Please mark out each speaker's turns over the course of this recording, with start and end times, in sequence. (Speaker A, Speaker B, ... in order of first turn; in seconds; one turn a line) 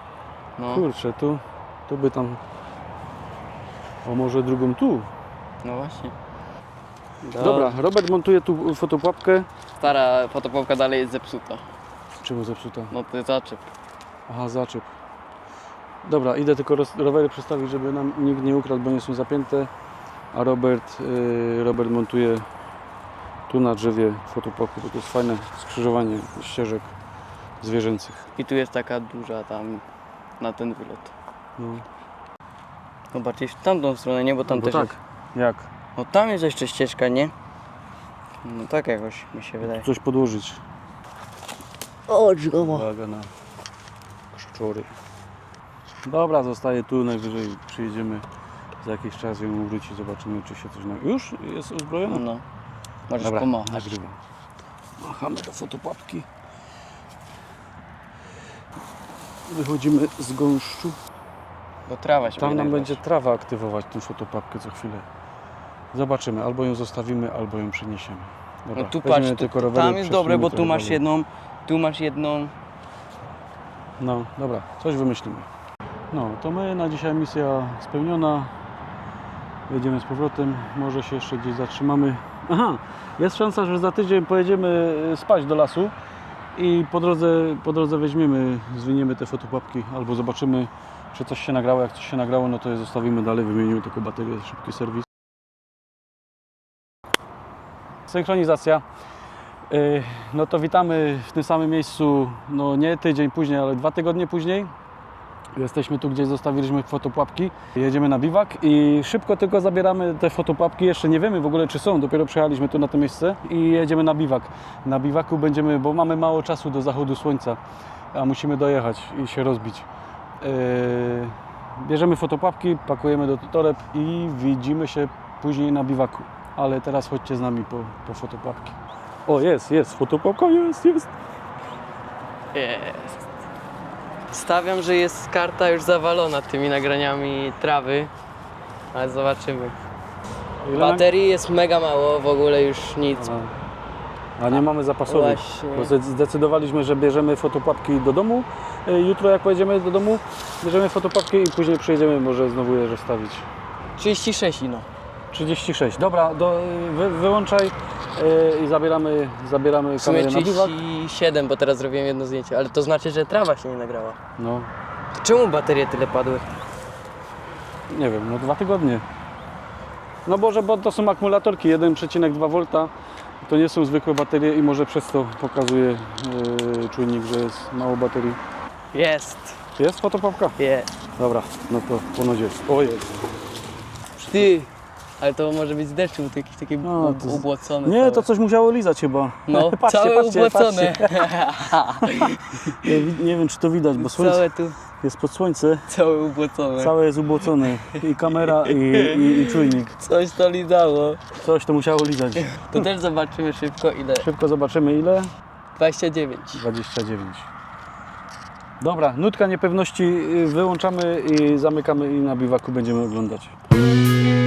Speaker A: 0.6-0.9
Speaker B: 0.7-2.4
Speaker B: 4.0-5.1
Speaker A: 5.6-6.2
Speaker A: 7.2-7.8
Speaker B: 7.4-9.5
Speaker A: 9.8-11.6
Speaker B: 12.2-12.9
Speaker A: 12.9-13.7
Speaker B: 14.3-14.9
Speaker B: 16.0-19.7
Speaker B: 20.3-22.4
Speaker B: 23.5-26.9
Speaker B: 27.6-28.3
Speaker A: 28.4-29.8
Speaker A: 30.4-31.1
Speaker B: 31.6-31.8
Speaker A: 33.1-35.0
Speaker B: 34.5-35.7
Speaker A: 36.0-37.3
Speaker A: 38.4-39.9
Speaker B: 39.6-40.6
Speaker A: 42.1-42.9
Speaker B: 42.6-43.3
Speaker B: 44.3-44.9
Speaker B: 46.1-48.2
Speaker B: 48.8-52.2
Speaker A: 52.1-52.4
Speaker A: 53.1-54.0
Speaker B: 53.2-54.2
Speaker B: 55.0-56.3
Speaker B: 59.5-61.0
Speaker A: 61.9-63.0
Speaker B: 62.4-65.1
Speaker B: 65.9-71.0
Speaker A: 68.8-72.5
Speaker B: 74.0-75.5
Speaker B: 76.1-78.5
Speaker B: 79.7-85.9
Speaker B: 86.5-95.1
Speaker B: 98.1-98.8
Speaker B: 99.7-104.7
Speaker B: 105.5-117.6
Speaker B: 118.1-119.9
Speaker B: 120.4-131.1
Speaker A: 132.5-133.2
Speaker A: 134.3-138.1
Speaker A: 138.9-139.8
Speaker B: 140.6-141.1
Speaker A: 140.7-143.3
Speaker B: 143.1-143.5
Speaker B: 144.4-153.5
Speaker A: 144.5-145.9
Speaker A: 154.0-154.9
Speaker B: 155.3-160.8
Speaker A: 160.0-164.2
Speaker B: 164.4-164.7
Speaker A: 165.2-166.5
Speaker B: 167.9-169.0
Speaker B: 170.2-172.9
Speaker B: 173.4-178.4
Speaker A: 178.9-179.6
Speaker B: 179.8-180.6
Speaker A: 180.6-180.9
Speaker B: 181.2-183.1
Speaker A: 184.2-188.3
Speaker B: 184.2-184.5
Speaker B: 186.8-191.3
Speaker A: 189.5-193.0
Speaker B: 192.0-195.9
Speaker A: 194.0-194.8
Speaker A: 195.9-197.0
Speaker B: 196.8-200.0
Speaker A: 197.8-201.3
Speaker B: 201.3-202.7
Speaker A: 202.4-204.3
Speaker B: 204.2-205.3
Speaker A: 205.8-206.7
Speaker B: 206.6-207.5
Speaker B: 208.8-213.5